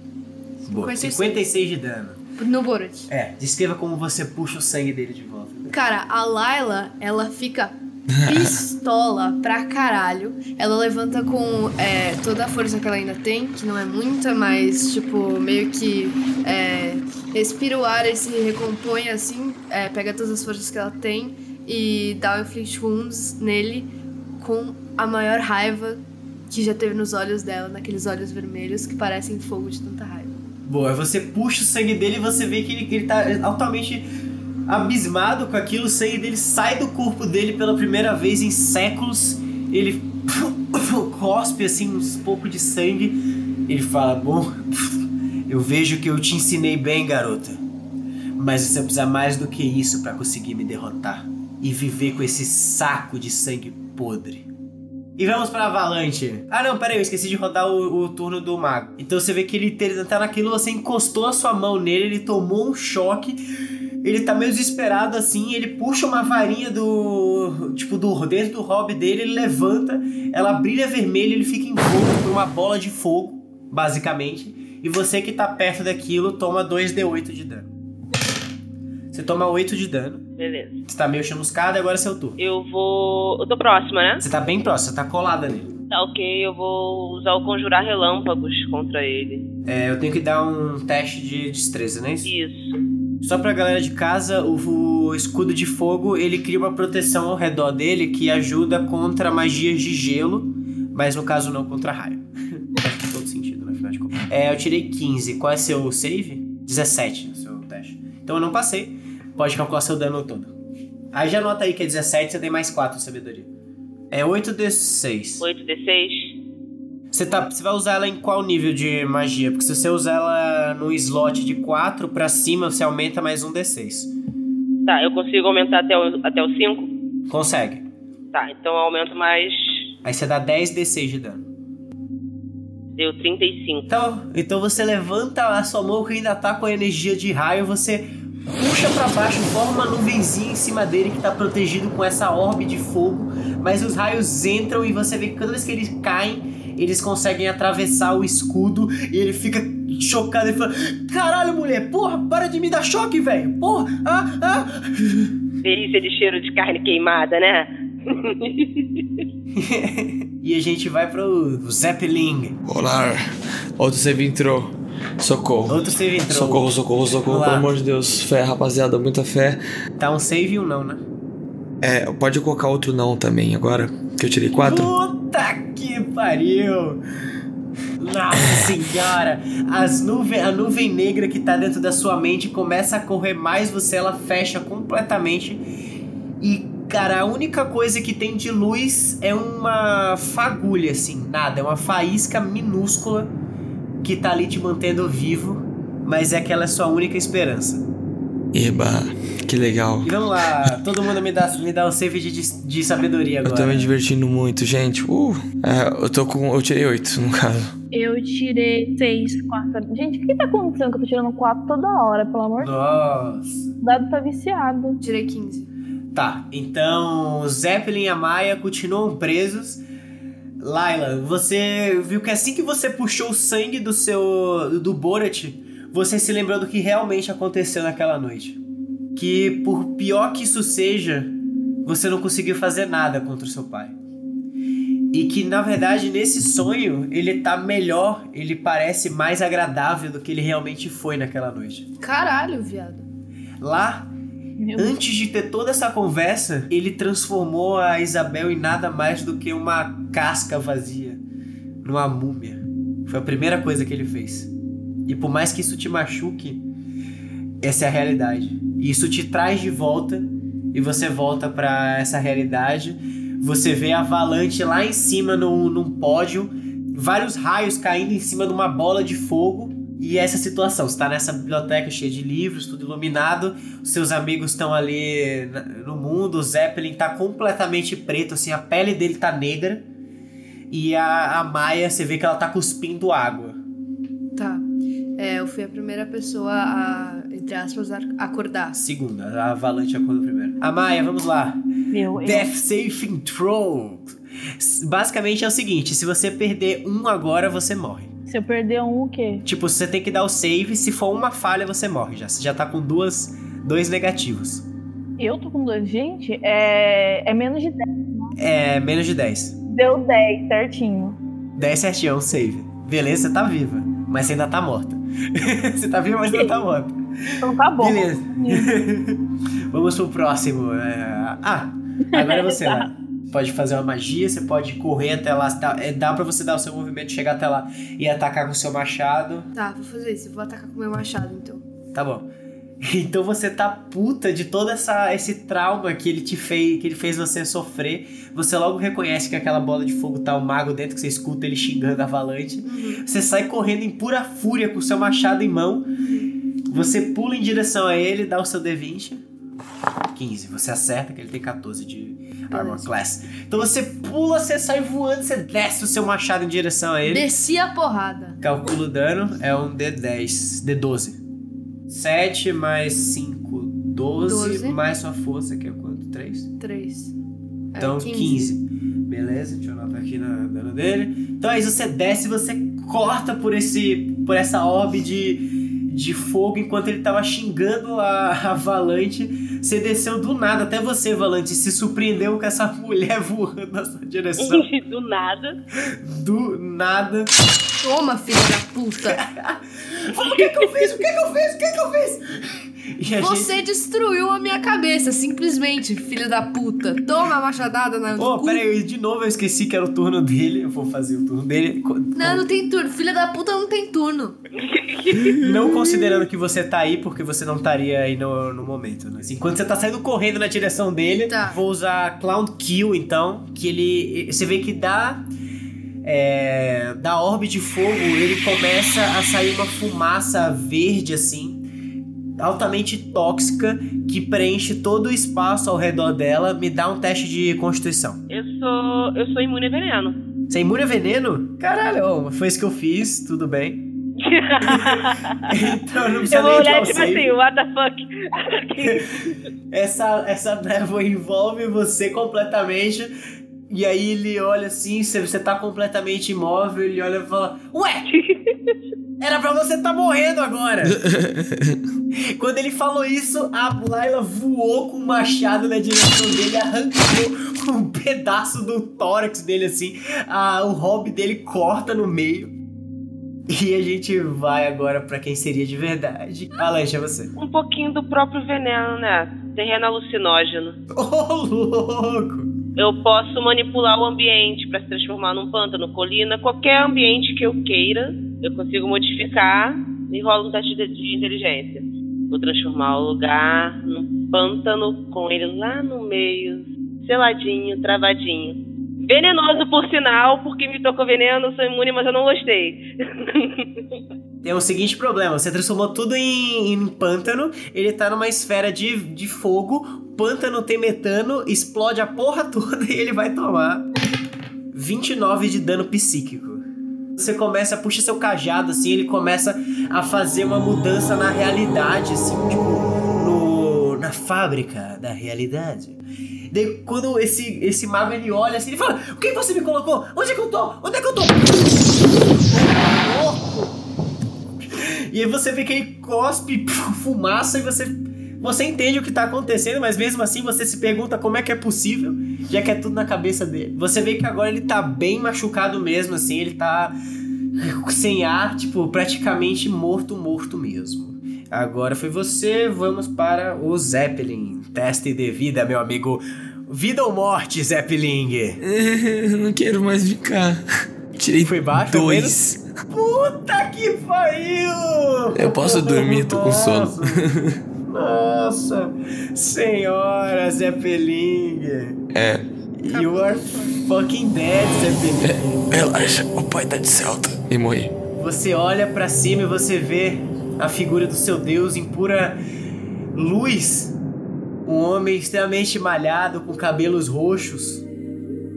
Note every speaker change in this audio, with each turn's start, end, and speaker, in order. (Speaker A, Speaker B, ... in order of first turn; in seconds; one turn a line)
Speaker A: 0.7-2.2
Speaker B: 0.7-1.5
Speaker B: 2.4-3.1
Speaker A: 3.1-5.8
Speaker B: 5.7-30.4
Speaker C: 8.2-8.5
Speaker A: 30.7-34.1
Speaker A: 34.7-47.6
Speaker A: 48.4-54.5
Speaker A: 55.2-63.4
Speaker A: 64.0-77.7
Speaker A: 79.1-80.2
Speaker D: 80.4-80.8
Speaker A: 80.9-82.4
Speaker D: 82.4-84.2
Speaker A: 84.2-85.7
Speaker D: 85.9-89.5
Speaker A: 89.7-92.3
Speaker D: 92.2-92.8
Speaker A: 93.2-110.5
Speaker A: 111.1-113.5
Speaker A: 114.1-115.5
Speaker D: 115.4-116.4
Speaker A: 117.1-124.1
Speaker D: 124.9-126.9
Speaker A: 127.3-127.8
Speaker D: 128.3-129.9
Speaker A: 130.0-131.4
Speaker D: 133.0-133.9
Speaker A: 133.9-155.4
Speaker D: 155.6-159.2
Speaker A: 159.5-162.6
Speaker C: 162.7-163.2
Speaker C: 163.8-169.6
Speaker A: 165.7-166.7
Speaker A: 167.3-167.7
Speaker A: 170.0-171.0
Speaker C: 171.8-174.9
Speaker A: 174.5-177.0
Speaker A: 178.0-185.6
Speaker A: 186.4-193.3
Speaker A: 194.0-197.9
Speaker C: 198.5-200.7
Speaker A: 200.0-203.9
Speaker C: 203.4-207.7
Speaker E: 207.9-212.7
Speaker A: 212.6-213.7
Speaker E: 213.8-215.0
Speaker B: 215.0-215.7
Speaker A: 216.1-219.8
Speaker A: 220.6-228.6
Speaker A: 229.2-234.0
Speaker A: 235.1-241.9
Speaker B: 242.0-243.1
Speaker A: 243.6-244.1
Speaker E: 244.6-245.0
Speaker A: 244.8-251.2
Speaker A: 251.8-254.5
Speaker A: 255.1-256.6
Speaker A: 257.6-279.9
Speaker A: 280.7-283.6
Speaker B: 284.4-284.7
Speaker B: 285.2-288.8
Speaker A: 288.7-291.6
Speaker E: 291.9-292.5
Speaker A: 292.2-298.1
Speaker E: 298.3-299.5
Speaker A: 299.4-304.7
Speaker E: 305.2-308.4
Speaker A: 308.4-309.6
Speaker E: 309.7-311.2
Speaker A: 311.6-317.0
Speaker E: 316.3-316.6
Speaker E: 317.4-318.7
Speaker A: 317.8-329.5
Speaker E: 322.1-322.9
Speaker B: 329.5-331.6
Speaker A: 331.9-332.3
Speaker A: 332.8-346.0
Speaker B: 342.6-343.0
Speaker B: 346.0-346.3
Speaker A: 346.7-349.2
Speaker A: 350.1-357.3
Speaker B: 352.5-352.9
Speaker B: 357.1-358.4
Speaker A: 358.4-361.2
Speaker A: 361.9-366.5
Speaker B: 364.2-364.8
Speaker B: 366.6-367.1
Speaker B: 367.7-368.5
Speaker A: 367.8-384.7
Speaker D: 384.4-385.6
Speaker A: 385.8-387.3
Speaker B: 387.8-389.2
Speaker A: 389.1-393.6
Speaker B: 393.2-398.6
Speaker A: 398.2-402.5
Speaker B: 402.2-404.4
Speaker D: 404.6-405.4
Speaker C: 405.1-405.4
Speaker A: 405.4-415.2
Speaker B: 411.3-411.6
Speaker A: 416.0-421.6
Speaker A: 422.4-428.2
Speaker D: 428.3-430.2
Speaker A: 430.5-433.9
Speaker D: 434.2-435.6
Speaker A: 434.6-437.4
Speaker D: 436.3-439.4
Speaker A: 438.8-443.1
Speaker A: 443.7-448.1
Speaker D: 448.1-448.8
Speaker A: 449.2-451.0
Speaker C: 450.9-451.8
Speaker A: 452.2-462.6
Speaker A: 463.5-467.3
Speaker D: 467.4-470.8
Speaker A: 470.9-472.5
Speaker D: 472.8-494.0
Speaker A: 494.4-503.9
Speaker A: 504.7-506.6
Speaker A: 507.2-516.0
Speaker A: 516.5-523.7
Speaker A: 524.6-537.0
Speaker A: 537.6-548.6
Speaker C: 548.6-550.6
Speaker C: 551.2-552.6
Speaker A: 551.4-552.4
Speaker A: 552.9-557.2
Speaker C: 555.3-557.6
Speaker A: 557.8-562.0
Speaker C: 562.1-562.5
Speaker A: 562.8-565.6
Speaker B: 562.9-563.9
Speaker C: 565.2-567.9
Speaker A: 568.1-572.4
Speaker A: 573.1-574.0
Speaker A: 574.7-577.8